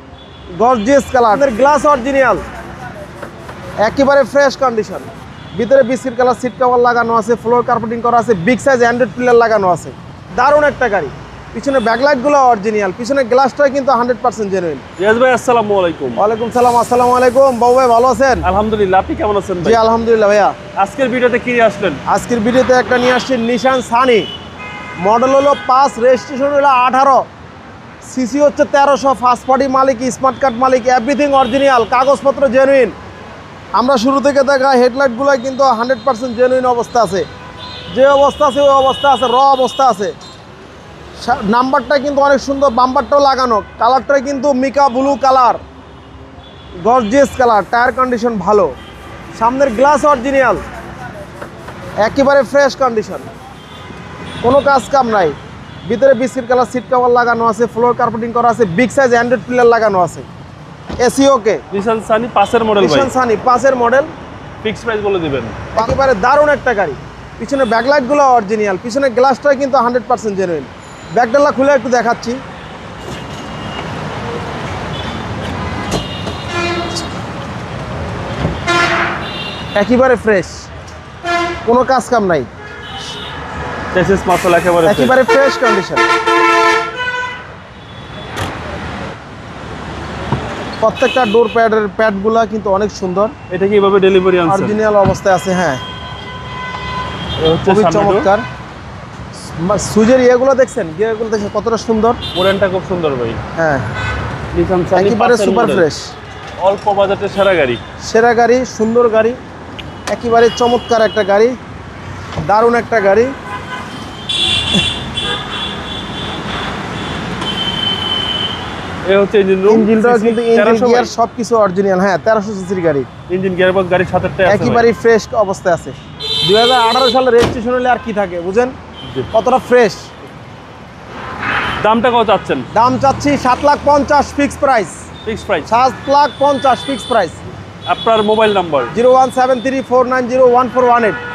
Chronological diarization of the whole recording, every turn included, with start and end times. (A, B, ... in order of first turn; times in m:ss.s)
0:00.6-0:02.4 A
0:03.8-0:14.8 A
0:15.0-0:16.2 B
0:16.2-0:18.5 A
0:18.4-0:19.8 B
0:19.6-0:20.6 A
0:20.7-0:22.0 B
0:22.1-0:24.3 A
0:25.0-0:27.2 A
0:28.0-0:32.9 A
0:33.7-0:37.2 A
0:37.9-0:40.1 A
0:41.2-0:45.6 A
0:46.8-0:48.7 A
0:49.3-0:50.6 A
0:52.0-0:53.3 A
0:54.4-0:55.3 A
0:55.8-1:00.3 A
1:01.0-1:01.6 A
1:01.7-1:03.1 B
1:02.8-1:04.1 A
1:04.6-1:05.6 B
1:05.7-1:12.4 A
1:19.7-1:20.6 A
1:21.6-1:22.5 A
1:23.9-1:25.1 B
1:24.8-1:26.1 A
1:30.8-1:33.3 A
1:33.5-1:34.8 B
1:34.5-1:35.8 A
1:37.4-1:38.3 B
1:37.6-1:38.4 A
1:39.6-1:42.2 A
1:42.3-1:43.4 B
1:43.5-1:43.9 A
1:44.5-1:45.9 B
1:44.9-1:46.1 A
1:46.6-1:47.8 B
1:48.0-1:49.4 A
1:50.1-1:51.6 A
1:52.4-1:53.3 A
1:59.0-2:01.1 B
1:59.6-2:03.1 A
2:03.3-2:04.9 B
2:04.4-2:08.8 A
2:09.3-2:10.1 A
2:11.8-2:12.7 B
2:12.7-2:15.0 A
2:15.2-2:15.7 B
2:15.7-2:17.4 A
2:17.9-2:18.9 B
2:18.9-2:21.2 A